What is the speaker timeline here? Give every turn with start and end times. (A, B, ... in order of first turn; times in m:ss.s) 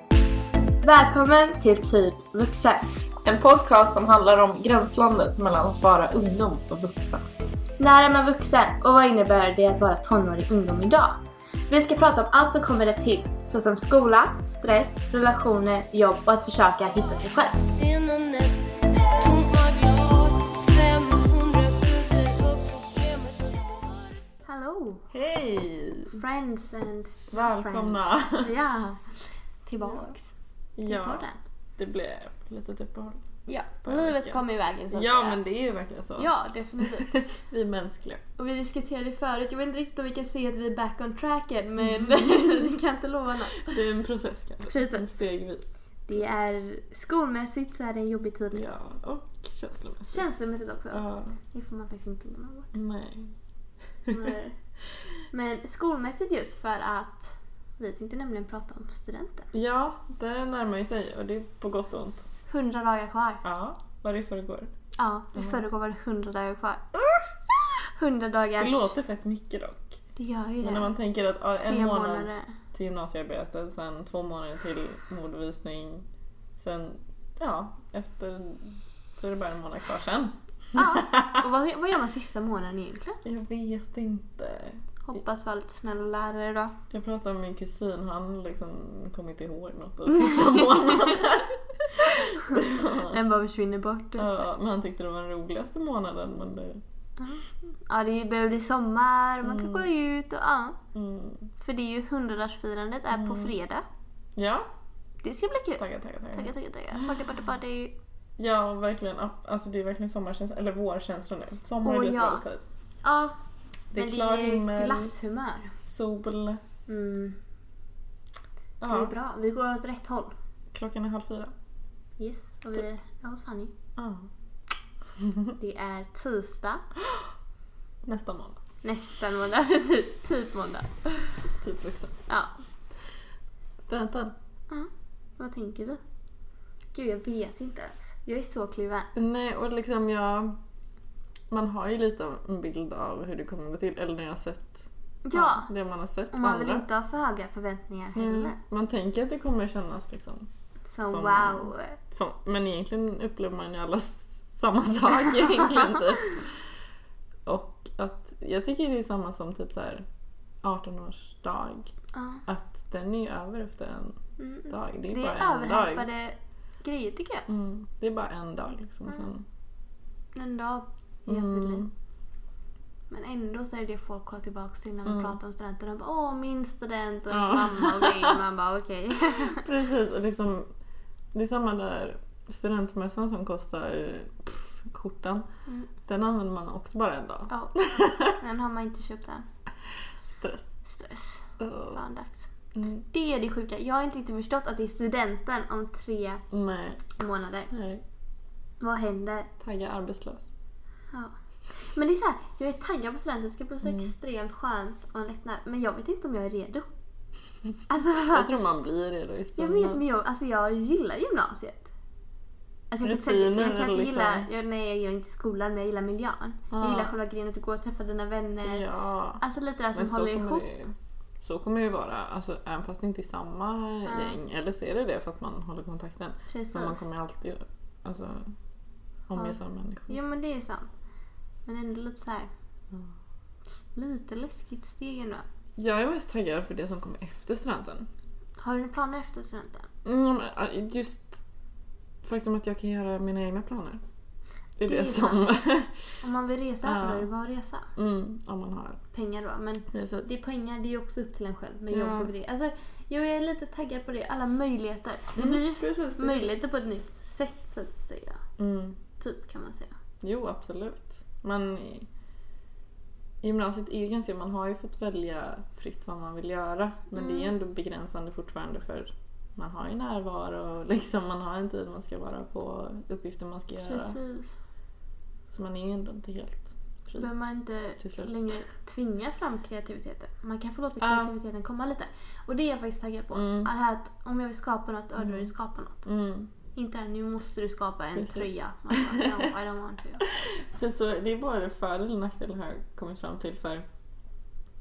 0:00.8-0:03.1 A
0:03.2-0:07.3 B
0:07.8-0:17.7 A
0:17.5-0:24.2 C
0:24.5-0:25.1 A
0:25.1-0:26.2 B
0:26.1-0:30.3 A
0:27.3-0:28.5 B
0:30.8-0:33.2 B
0:30.9-0:31.4 A
0:33.5-0:35.4 A
0:33.8-0:34.4 B
0:34.9-0:38.2 B
0:36.2-0:37.1 A
0:38.4-0:43.8 A
0:41.8-0:42.8 B
0:43.6-0:46.3 B
0:44.7-0:45.1 A
0:46.1-0:48.7 A
0:48.5-0:50.3 B
0:50.1-0:52.7 A
0:50.9-0:51.4 B
0:52.7-0:53.4 B
0:54.1-0:54.3 B
0:54.1-0:54.6 A
0:55.3-0:59.5 A
0:59.5-1:02.3 B
1:02.5-1:03.4 A
1:03.4-1:04.7 B
1:05.0-1:06.8 A
1:05.4-1:05.6 B
1:07.0-1:07.2 B
1:07.6-1:08.9 A
1:08.6-1:10.0 B
1:10.2-1:11.0 A
1:10.6-1:16.1 B
1:11.6-1:12.5 A
1:16.6-1:21.4 B
1:20.8-1:23.2 A
1:23.2-1:24.8 B
1:25.0-1:26.8 A
1:26.9-1:33.2 B
1:30.2-1:31.2 A
1:32.1-1:34.3 A
1:34.2-1:36.8 B
1:37.2-1:40.8 A
1:39.4-1:39.9 B
1:40.9-1:41.5 B
1:41.6-1:43.8 A
1:43.1-1:43.5 B
1:44.4-1:44.7 B
1:45.2-1:48.0 A
1:45.8-1:47.4 B
1:48.4-1:52.6 B
1:51.8-1:52.4 A
1:53.0-1:53.4 A
1:53.9-1:55.1 B
1:53.9-1:55.7 A
1:55.8-1:56.6 B
1:56.9-1:57.4 A
1:58.8-1:59.1 B
1:58.9-2:00.4 A
2:00.7-2:01.5 B
2:02.2-2:03.7 A
2:04.0-2:04.3 B
2:05.2-2:05.5 B
2:05.6-2:06.8 A
2:08.0-2:08.6 B
2:08.8-2:11.4 A
2:11.6-2:12.2 B
2:13.8-2:14.4 B
2:14.7-2:16.0 A
2:16.9-2:19.1 A
2:19.1-2:20.6 B
2:21.5-2:26.9 B
2:25.3-2:25.7 A
2:26.3-2:28.6 A
2:28.2-2:30.5 B
2:30.9-2:32.0 A
2:31.0-2:36.5 B
2:37.5-2:40.1 B
2:40.6-2:41.9 B
2:42.1-2:42.4 A
2:42.5-2:46.1 B
2:44.4-2:47.5 A
2:47.5-2:49.4 B
2:50.4-2:51.9 A
2:51.3-2:51.9 B
2:53.1-2:59.7 A
2:55.1-2:55.4 B
2:57.3-2:58.4 B
2:59.3-3:00.7 B
3:01.3-3:05.5 B
3:06.1-3:08.4 B
3:07.5-3:09.5 A
3:10.3-3:10.8 B
3:10.8-3:12.5 A
3:11.6-3:12.0 B
3:12.7-3:13.0 B
3:13.1-3:16.4 A
3:16.5-3:17.0 B
3:17.1-3:17.7 A
3:17.7-3:18.0 B
3:18.8-3:19.5 A
3:19.6-3:20.5 B
3:21.1-3:26.9 A
3:23.8-3:24.1 B
3:27.9-3:28.5 A
3:28.1-3:30.0 B
3:29.6-3:31.9 A
3:32.9-3:38.8 A
3:33.0-3:34.5 B
3:36.7-3:37.1 B
3:38.6-3:39.4 B
3:39.4-3:40.7 A
3:39.9-3:48.6 B
3:44.1-3:44.4 A
3:46.5-3:47.0 A
3:49.3-3:50.2 B
3:50.1-3:50.9 A
3:51.7-3:52.5 A
3:53.9-3:55.4 A
3:55.8-3:58.1 B
3:58.6-3:59.9 A
4:00.0-4:01.4 B
4:02.2-4:04.0 B
4:04.8-4:06.2 B
4:04.9-4:05.5 A
4:06.2-4:07.9 A
4:06.8-4:07.3 B
4:08.0-4:09.0 B
4:09.1-4:18.4 A
4:09.9-4:10.3 B
4:11.9-4:12.3 B
4:15.4-4:16.5 B
4:18.6-4:19.0 B
4:19.2-4:19.9 A
4:20.2-4:22.1 B
4:23.4-4:34.2 B
4:27.2-4:27.5 A
4:33.8-4:34.6 A
4:35.5-4:37.3 B
4:37.2-4:46.1 A
4:38.0-4:38.6 B
4:41.0-4:41.3 B
4:43.3-4:43.7 B
4:45.2-4:45.5 B
4:46.1-4:46.5 B
4:46.8-4:50.2 A
4:48.2-4:49.5 B
4:50.2-4:53.9 B